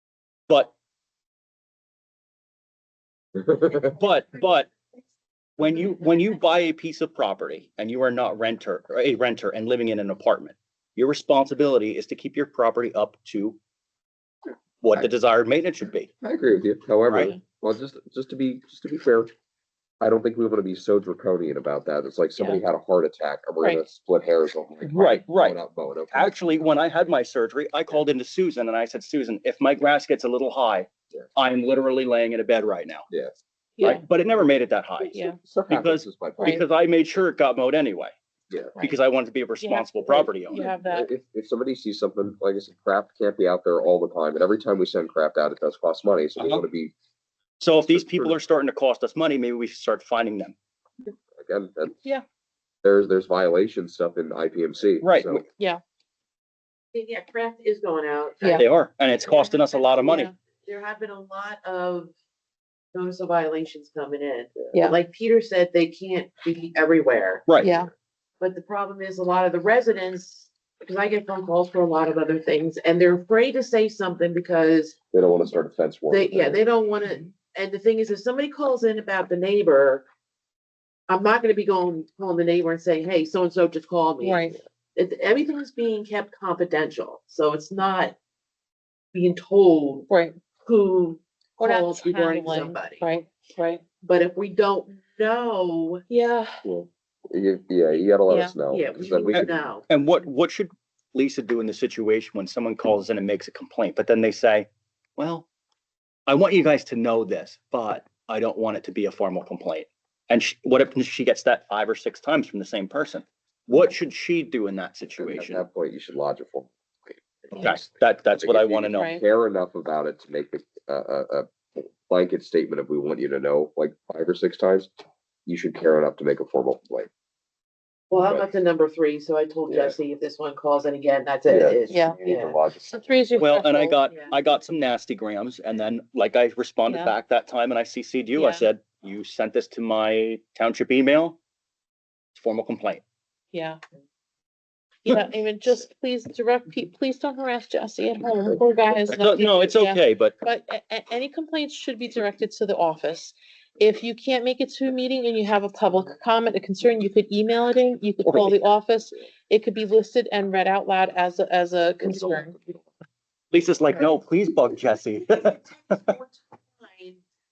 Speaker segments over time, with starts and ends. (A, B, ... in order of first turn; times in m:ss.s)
0:03.4-0:03.8 A
0:03.9-0:04.7 B
0:05.6-0:13.6 B
0:14.8-0:16.1 B
0:16.2-0:19.3 A
0:17.1-0:17.3 B
0:20.0-0:26.3 A
0:24.8-0:25.6 B
0:26.1-0:33.1 B
0:33.8-0:34.0 C
0:33.8-0:38.1 B
0:35.1-0:35.4 C
0:35.4-0:36.6 A
0:38.8-0:40.6 B
0:39.6-0:41.1 C
0:40.5-0:46.9 A
0:46.4-0:46.6 B
0:47.6-0:50.6 B
0:47.9-0:48.4 A
0:51.4-0:52.0 A
0:52.8-0:55.4 A
0:55.0-0:55.4 B
0:55.6-0:55.8 C
0:56.9-1:02.1 D
0:58.5-1:00.3 B
1:00.0-1:00.3 C
1:02.9-1:07.5 D
1:07.5-1:07.7 B
1:07.6-1:07.9 C
1:08.4-1:15.0 D
1:15.1-1:16.6 A
1:16.1-1:20.0 D
1:21.1-1:28.2 D
1:24.2-1:24.6 C
1:29.1-1:30.1 D
1:30.1-1:30.4 C
1:30.6-1:33.1 D
1:31.6-1:33.8 C
1:34.0-1:36.0 D
1:36.1-1:36.6 C
1:36.6-1:39.5 A
1:38.3-1:38.5 C
1:38.7-1:39.8 D
1:39.3-1:45.5 B
1:46.3-1:55.6 B
1:55.2-1:57.8 A
1:57.6-1:59.1 B
1:58.4-2:04.9 A
1:59.0-1:59.2 C
2:05.4-2:07.1 A
2:08.1-2:12.6 D
2:09.7-2:09.9 A
2:11.5-2:12.9 A
2:11.9-2:12.3 C
2:12.9-2:14.0 C
2:13.4-2:21.4 B
2:16.9-2:17.1 C
2:18.3-2:18.7 C
2:22.3-2:23.0 B
2:23.5-2:23.8 C
2:25.0-2:42.6 C
2:29.2-2:30.4 B
2:38.2-2:38.6 B
2:42.1-2:42.8 A
2:43.5-2:46.1 B
2:45.3-2:47.2 D